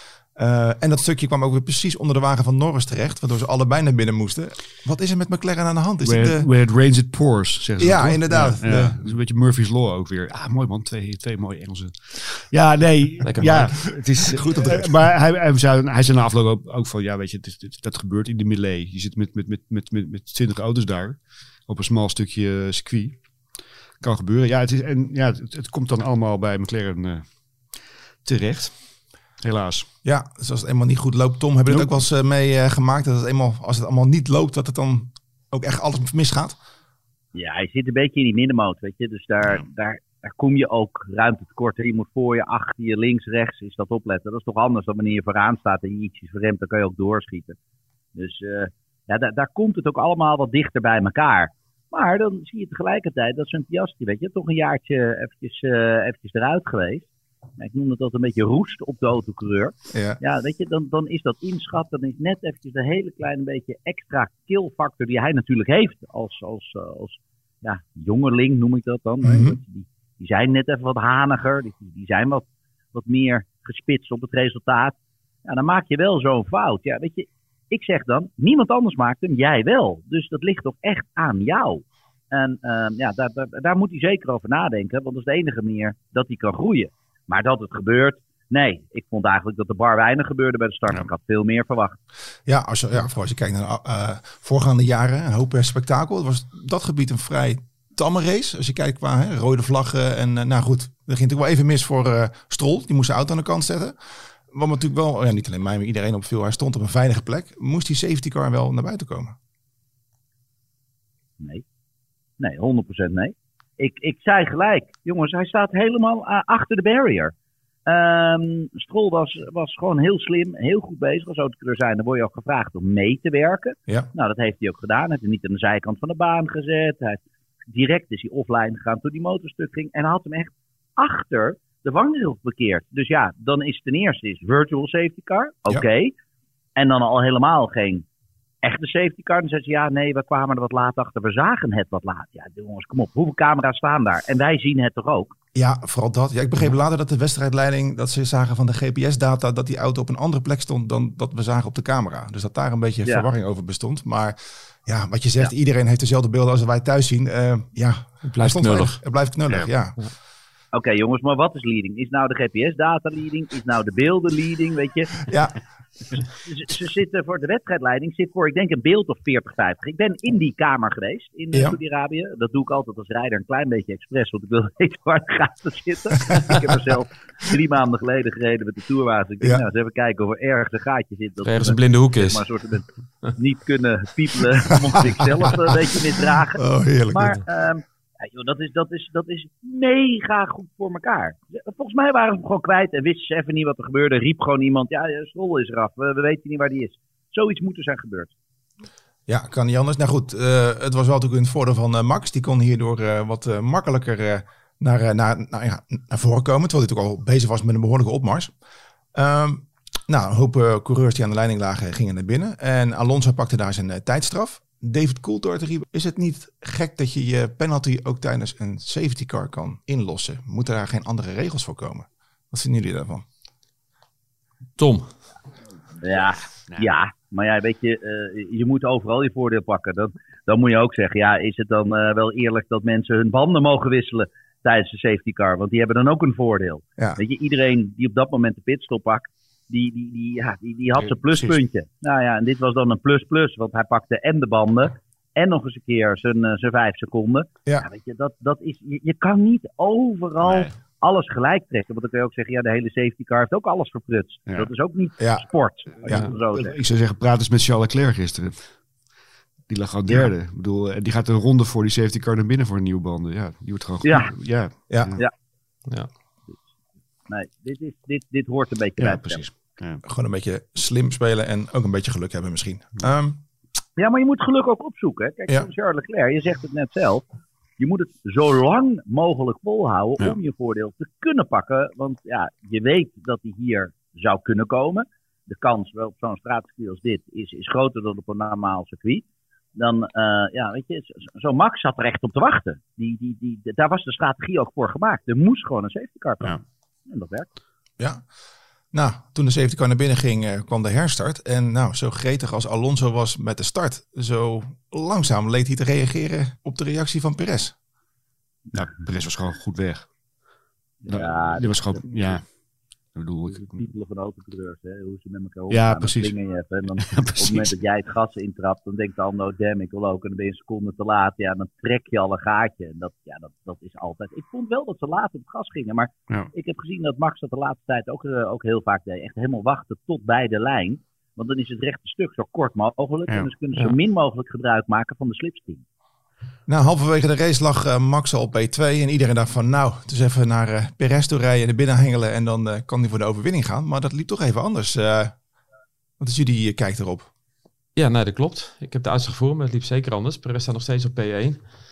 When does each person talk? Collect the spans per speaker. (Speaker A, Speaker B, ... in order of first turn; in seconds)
Speaker A: 0.3-6.5, 7.8-9.0, 14.2-15.0, 30.0-36.6, 59.9-60.2, 69.2-69.6, 92.5-109.3, 145.5-160.0, 165.3-165.6, 186.5-187.4, 199.3-208.5, 209.1-223.2, 255.2-255.4, 264.9-265.2, 270.0-273.4, 298.0-298.3, 298.9-307.7, 336.7-345.3, 346.2-347.3
Speaker B: 6.0-28.8, 29.4-29.9, 31.7-32.0, 241.0-241.6, 250.4-250.7, 256.0-259.1, 259.7-265.2, 269.0-270.0, 308.7-310.2, 311.1-313.9, 315.7-316.3, 317.0-317.8
Speaker C: 13.2-14.0, 158.2-159.0, 181.4-182.4, 224.8-225.1, 347.9-351.6
Speaker D: 37.3-47.6, 48.1-92.0, 112.4-117.3, 117.8-136.1, 136.8-138.0, 138.6-145.3, 160.7-165.2, 166.4-198.3, 226.0-256.8, 264.0-265.3, 267.3-269.4, 274.0-277.2, 277.8-289.2, 289.8-297.5, 311.0-312.4, 313.5-335.8